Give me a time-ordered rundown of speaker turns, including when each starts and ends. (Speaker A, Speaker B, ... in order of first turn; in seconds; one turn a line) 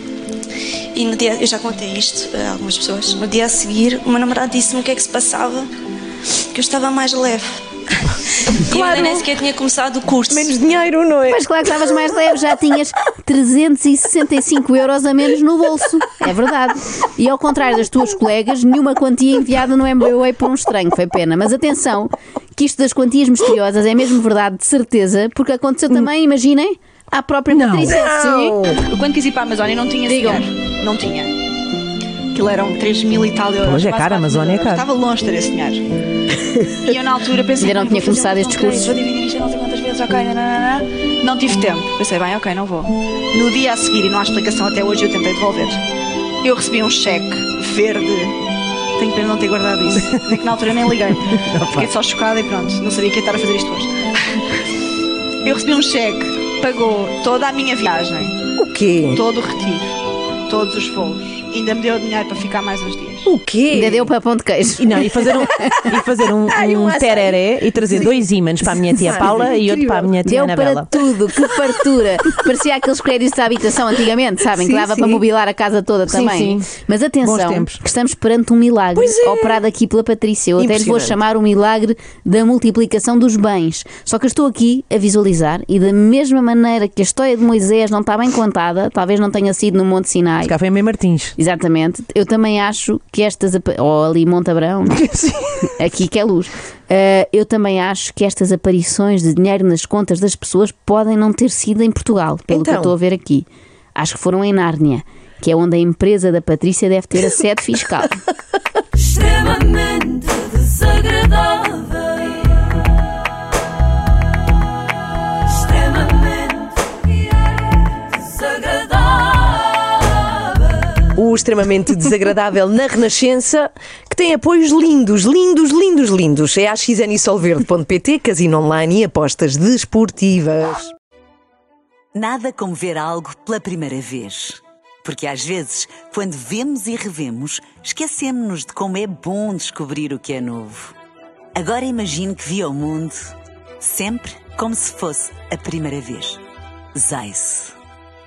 Speaker A: 0.9-5.7
Speaker A: 6.5-7.6
Speaker A: 8.6-10.6
Speaker B: 8.7-9.3
Speaker B: 10.3-11.4
Speaker C: 11.3-28.6
Speaker D: 27.6-27.9
Speaker B: 27.9-28.8
Speaker E: 28.8-31.3
Speaker C: 30.1-30.5
Speaker E: 32.3-35.8
Speaker D: 33.6-34.9
Speaker E: 36.9-45.8
Speaker C: 37.6-39.0
Speaker E: 46.4-48.4
Speaker E: 49.0-51.2
Speaker D: 51.3-51.9
Speaker E: 51.7-53.9
Speaker E: 55.4-58.4
Speaker B: 58.6-59.2
Speaker E: 59.1-59.9
Speaker E: 60.5-63.3
Speaker B: 63.2-64.1
Speaker C: 63.7-65.9
Speaker D: 64.8-70.9
Speaker B: 66.4-68.3
Speaker B: 68.9-70.1
Speaker C: 70.2-90.5
Speaker B: 74.7-75.2
Speaker D: 76.1-76.7
Speaker D: 77.2-77.8
Speaker B: 79.0-79.6
Speaker B: 80.6-81.2
Speaker D: 90.4-91.3
Speaker C: 91.4-95.0
Speaker D: 95.1-95.3
Speaker C: 95.7-108.2
Speaker B: 102.5-103.0
Speaker B: 109.2-110.4
Speaker B: 121.1-130.9
Speaker F: 132.2-140.9
Speaker F: 141.6-143.2
Speaker F: 143.8-146.4
Speaker F: 147.0-147.7